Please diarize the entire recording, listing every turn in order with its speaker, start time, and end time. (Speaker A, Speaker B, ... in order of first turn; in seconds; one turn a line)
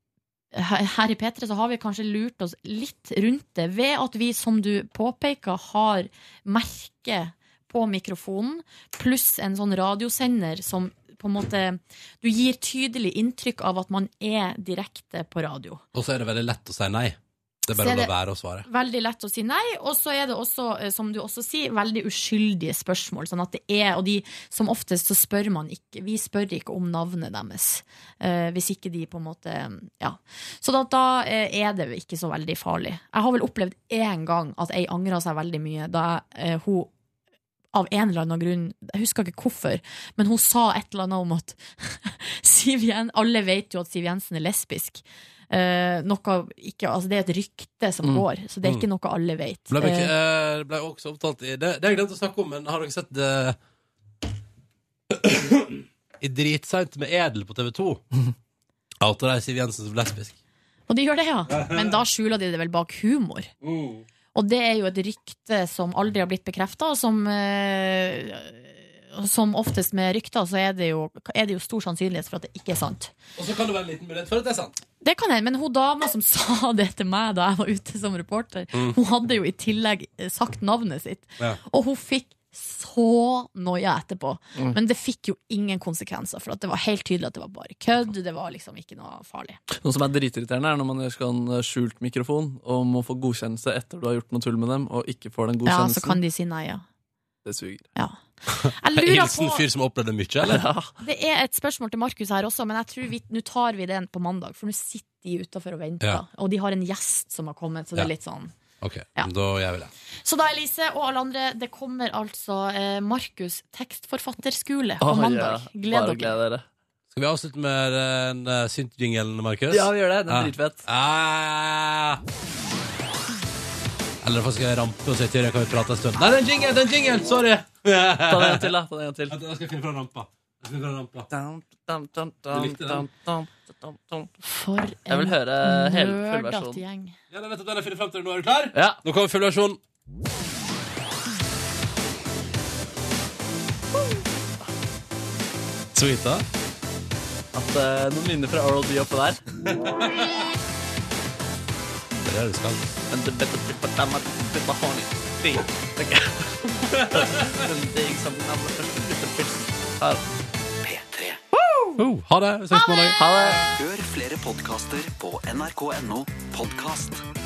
Speaker A: 0.5-15.8
Speaker B: 15.9-18.7
Speaker A: 17.7-18.1
Speaker A: 18.6-36.9
Speaker A: 37.7-50.1
Speaker B: 49.7-53.6
Speaker B: 55.1-58.0
Speaker B: 59.0-60.4
Speaker A: 60.9-63.5
Speaker B: 61.5-62.0
Speaker B: 63.6-64.0
Speaker A: 64.3-73.1
Speaker B: 73.3-74.8
Speaker A: 75.0-89.6
Speaker C: 89.8-96.2
Speaker A: 95.7-96.8
Speaker C: 97.4-97.8
Speaker A: 97.9-99.6
Speaker B: 98.6-100.6
Speaker C: 100.4-100.9
Speaker A: 101.0-108.5
Speaker B: 108.8-109.9
Speaker A: 110.2-116.3
Speaker C: 115.0-116.6
Speaker B: 117.1-122.2
Speaker C: 119.7-120.8
Speaker B: 124.2-128.7
Speaker C: 128.3-129.3
Speaker B: 129.3-131.3
Speaker C: 131.3-134.3
Speaker B: 132.5-133.1
Speaker A: 134.4-137.1
Speaker C: 135.1-136.8
Speaker B: 137.3-139.8
Speaker C: 138.7-139.0
Speaker B: 145.9-146.4
Speaker C: 147.5-149.4
Speaker B: 149.7-150.3
Speaker B: 152.2-152.9
Speaker C: 153.1-160.2
Speaker B: 157.0-157.2
Speaker D: 160.8-161.4
Speaker A: 161.5-162.0
Speaker B: 162.0-163.2
Speaker A: 162.8-163.2
Speaker C: 163.2-163.6
Speaker D: 163.7-167.2